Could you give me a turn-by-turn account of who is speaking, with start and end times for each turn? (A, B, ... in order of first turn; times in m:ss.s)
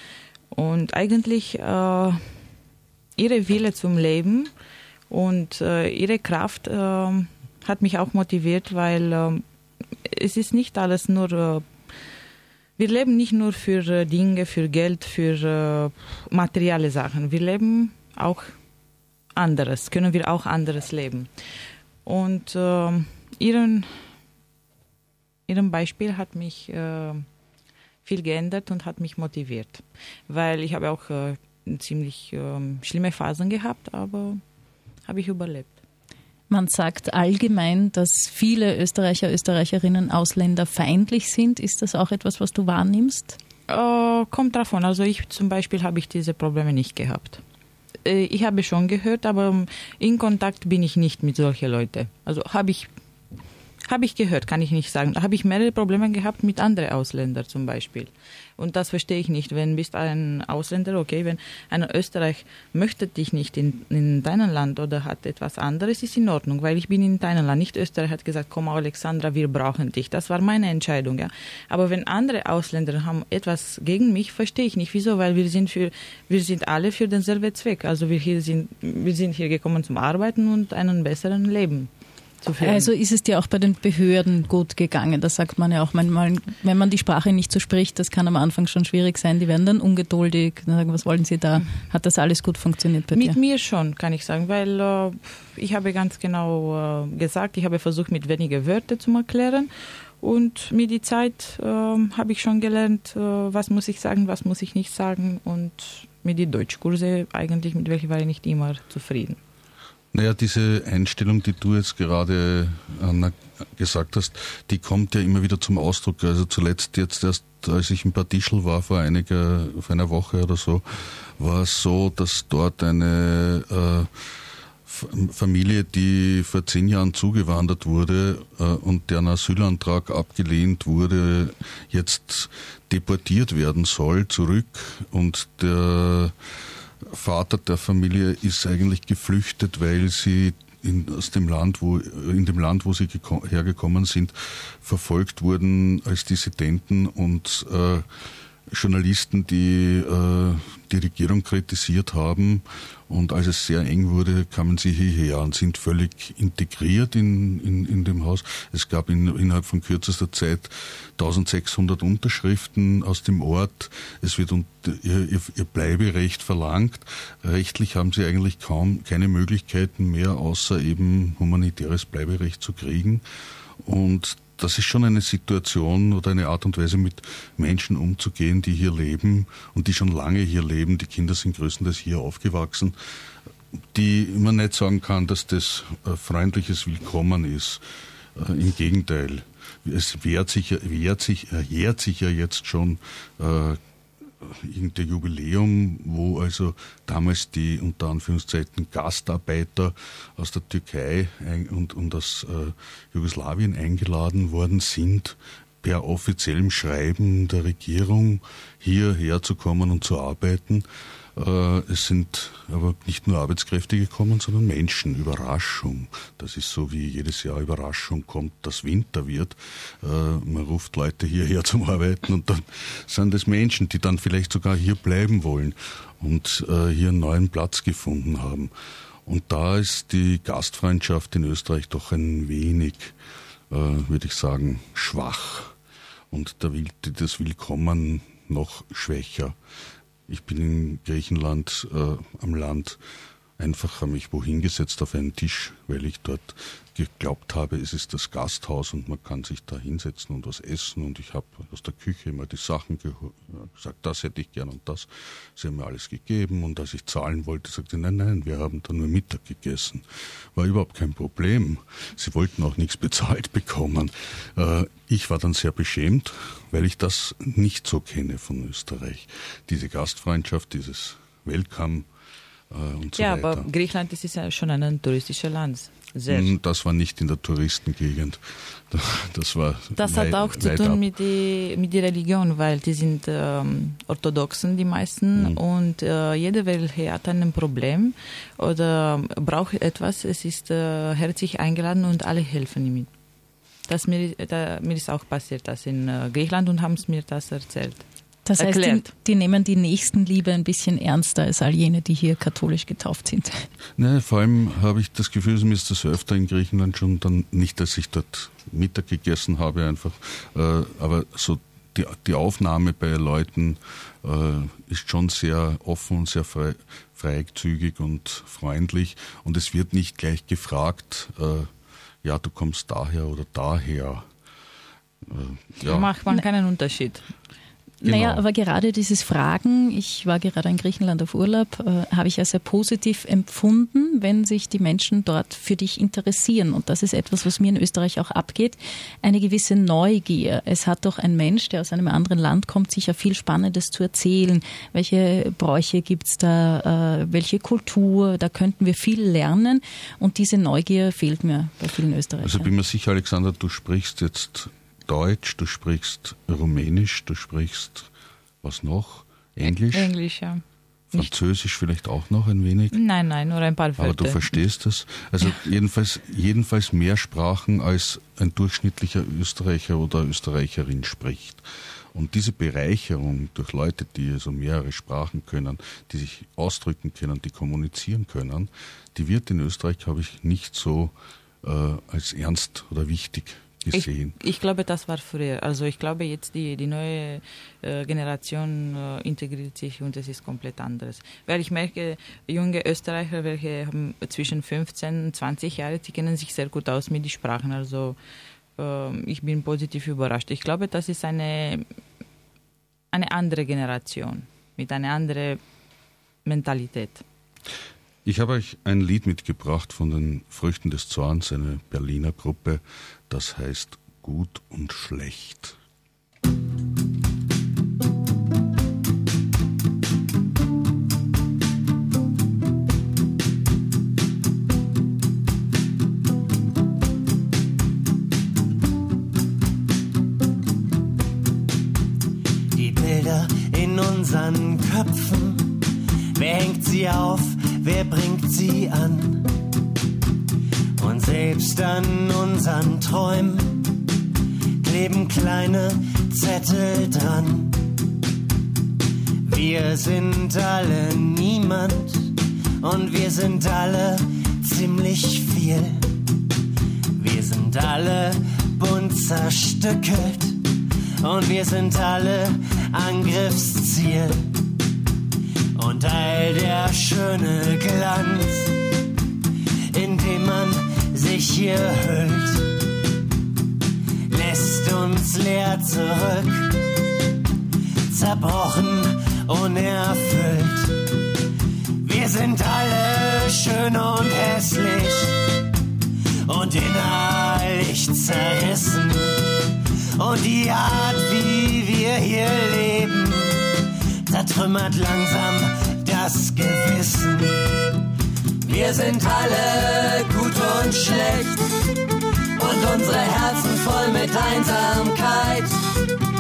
0:00.5-0:02.2 A
0:03.2-0:04.5 A
0:05.1-0:09.4 A
0:10.0-0:11.6 A
0:12.8-0:18.5 A
0:19.4-0:21.3 A
0:22.0-0:24.0 A
0:25.5-0:27.2 A
0:28.0-0:34.4 A
0:35.1-0:35.7 A
0:36.5-0:43.4 B
0:43.7-0:47.4 A
0:48.0-0:52.9 A
0:53.9-1:21.9 A
1:22.4-1:22.9 A
1:22.6-1:33.4 B
1:33.1-1:49.4 A
1:50.1-2:04.2 C
2:04.9-2:16.4 C
2:17.0-2:28.1 C
2:28.7-2:53.2 C
2:53.8-3:02.9 C
3:03.9-3:07.8 C
3:08.4-3:13.8 C
3:14.4-3:48.7 C
3:49.2-3:53.1 C
3:53.7-3:55.7 C
3:56.3-3:59.6 C
4:00.3-4:03.0 C
4:03.6-4:32.1 C
4:32.7-4:33.7 C
4:33.2-4:36.5 A
4:36.3-4:41.0 C
4:40.0-4:53.1 A
4:53.9-4:58.0 A
4:58.5-5:03.7 B
4:58.6-4:59.1 A
5:04.0-5:21.7 C
5:22.2-5:24.3 C
5:25.2-5:26.1 C
5:25.8-5:27.2 A
5:28.0-5:52.7 B
5:28.0-5:28.4 C
5:52.4-5:58.1 C
5:58.6-6:00.1 C
5:59.7-6:00.6 A
6:01.1-6:03.0 C
6:02.9-6:04.6 A
6:04.0-6:24.4 C
6:23.9-6:38.2 A
6:38.8-6:41.9 A
6:43.1-6:45.6 A
6:46.4-6:47.2 A
6:48.2-6:55.8 C
7:12.7-7:15.8 D
7:16.4-7:19.5 D
7:21.0-7:24.0 D
7:24.8-7:27.8 D
7:29.4-7:36.1 D
7:37.1-7:40.6 D
7:41.2-7:44.5 D
7:45.8-7:48.7 D
7:49.9-7:52.7 D
7:54.3-7:56.7 D
7:58.1-8:01.0 D
8:02.0-8:05.4 D
8:06.4-8:09.6 D
8:10.2-8:17.7 D
8:18.6-8:21.7 D
8:22.6-8:25.8 D